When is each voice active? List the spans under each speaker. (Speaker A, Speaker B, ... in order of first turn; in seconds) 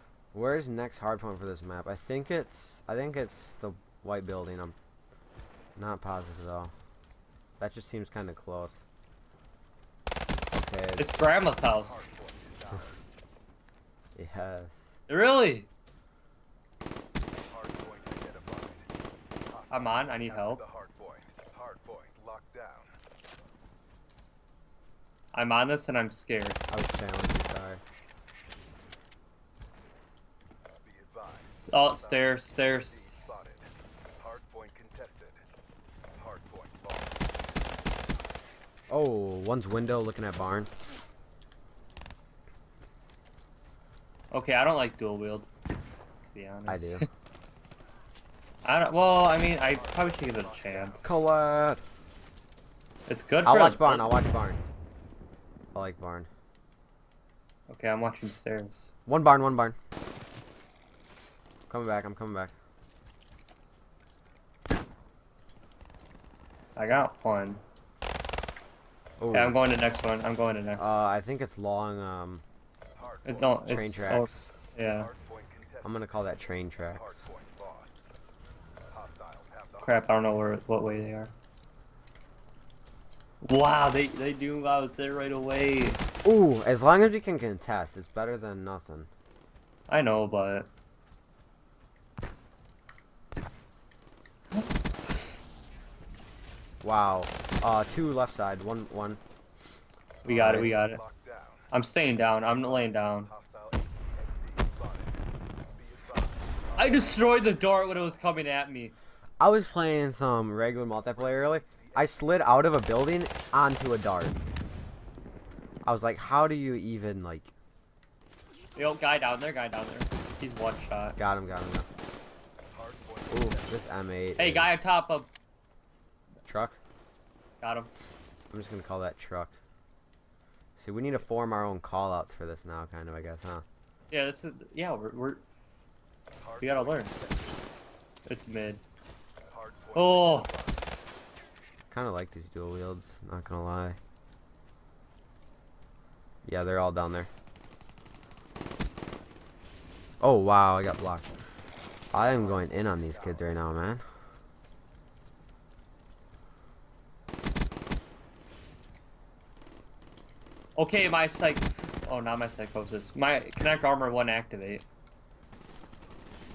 Speaker A: 0.3-4.7, 5.8-6.7, 7.6-8.8, 10.5-11.1, 14.1-14.8, 26.7-27.8, 38.9-40.7, 46.7-47.0, 51.0-51.8, 53.4-54.6, 55.7-56.3, 59.1-59.8, 61.7-62.5, 69.2-69.6, 70.8-72.4, 73.7-74.5, 75.8-77.3, 86.2-89.1, 96.8-99.2, 100.3-100.7, 109.4-114.4, 115.8-117.5, 121.2-121.9, 123.3-124.8, 126.5-126.8, 128.5-129.6, 130.8-133.6, 141.9-144.0, 146.4-147.3, 150.2-151.3, 152.1-154.0
Speaker B: 11.0-12.0, 15.1-15.7, 19.7-20.6, 25.3-26.6, 31.7-32.9, 44.3-45.5, 46.3-47.0, 48.6-51.1, 53.1-54.1, 57.7-58.9, 66.8-67.6, 69.3-71.0, 73.2-75.1, 79.8-81.3, 83.4-86.0, 89.9-90.7, 94.5-95.3, 100.2-101.0, 101.7-103.3, 106.8-108.9, 118.8-121.2, 124.4-125.3, 127.6-127.9, 134.1-135.4, 136.6-137.1, 138.2-138.8, 139.9-140.5, 160.8-164.8
Speaker C: 11.6-13.0, 17.4-18.9, 19.4-22.9, 30.8-35.4, 36.2-37.2, 49.3-51.2, 73.0-73.9, 74.9-76.1, 76.9-78.0, 78.9-80.0, 100.2-101.7, 102.3-105.2, 105.8-108.2, 111.0-112.6, 122.7-123.9, 136.4-137.7, 139.5-140.9, 152.3-153.7